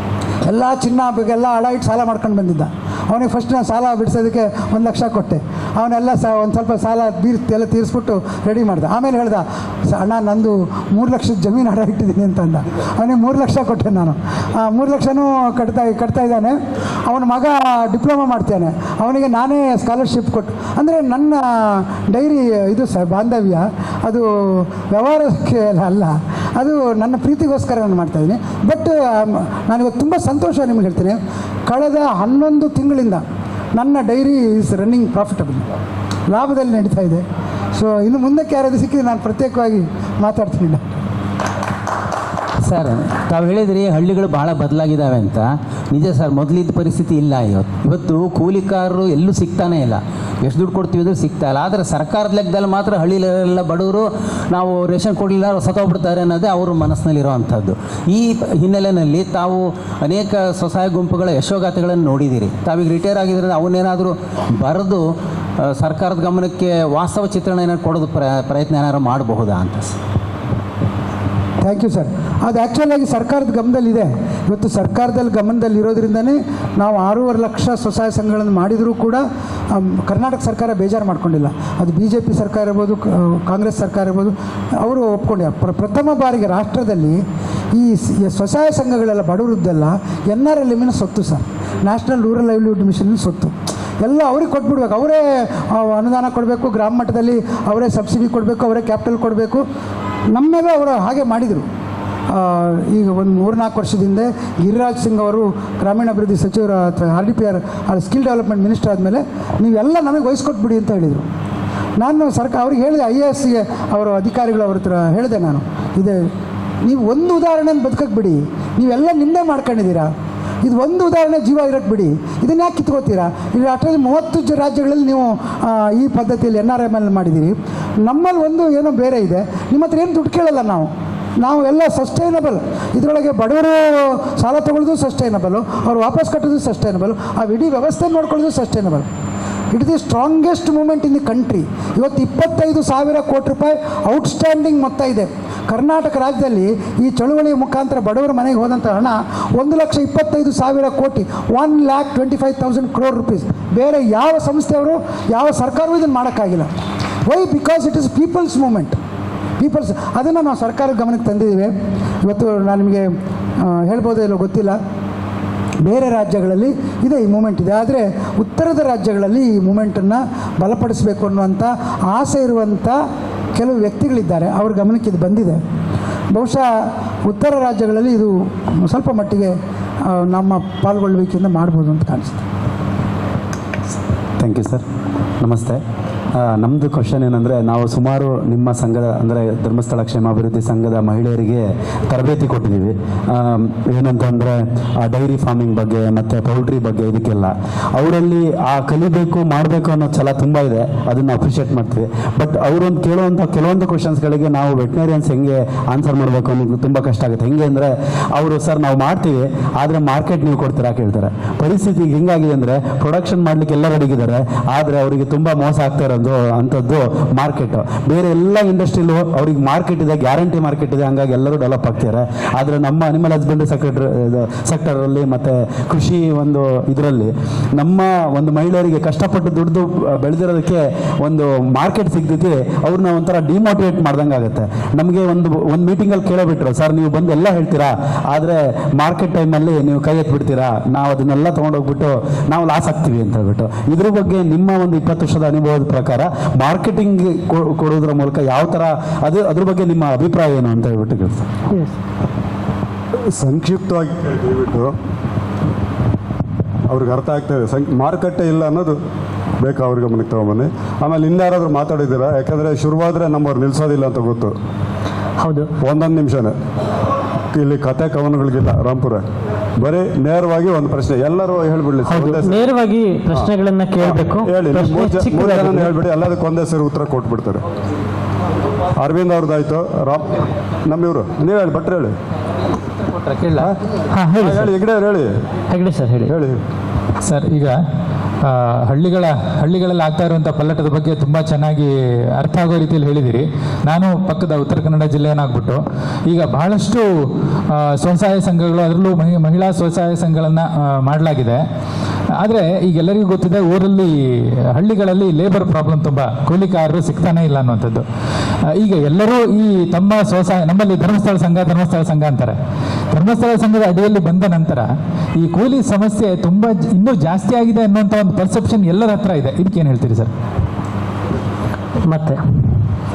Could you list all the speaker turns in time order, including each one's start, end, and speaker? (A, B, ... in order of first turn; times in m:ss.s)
0:00.4-0:33.2 A
0:33.8-0:35.7 A
0:36.3-0:40.8 A
0:42.6-1:05.0 B
1:05.6-1:10.0 B
1:11.6-1:27.2 A
1:27.7-1:39.6 A
1:40.3-1:41.7 A
1:42.3-1:51.3 A
1:52.0-1:56.2 A
1:56.8-2:00.1 A
2:00.6-2:10.9 A
2:11.4-2:19.1 A
2:19.7-2:36.7 A
2:37.3-2:39.0 A
2:39.6-2:44.8 A
2:45.8-2:53.0 A
2:53.6-2:55.6 A
2:56.3-2:56.7 A
2:57.2-3:02.4 A
3:04.4-3:04.8 C
3:05.4-3:05.8 C
3:06.3-4:11.5 C
4:13.4-4:15.0 D
4:16.9-4:19.0 D
4:19.6-4:24.6 D
4:25.4-4:25.7 E
4:25.8-4:26.6 D
4:27.5-4:29.2 D
4:29.8-4:32.6 D
4:32.1-4:35.9 E
4:33.3-4:37.6 D
4:39.0-4:42.2 D
4:43.2-4:43.7 F
4:44.1-4:44.7 E
4:44.4-4:45.4 D
4:45.7-4:46.3 E
4:46.2-4:46.6 D
4:47.2-4:47.8 F
4:48.4-5:01.6 F
5:02.4-5:04.2 F
5:04.7-5:08.0 F
5:08.7-5:12.6 F
5:13.1-5:20.3 F
5:22.1-5:22.8 E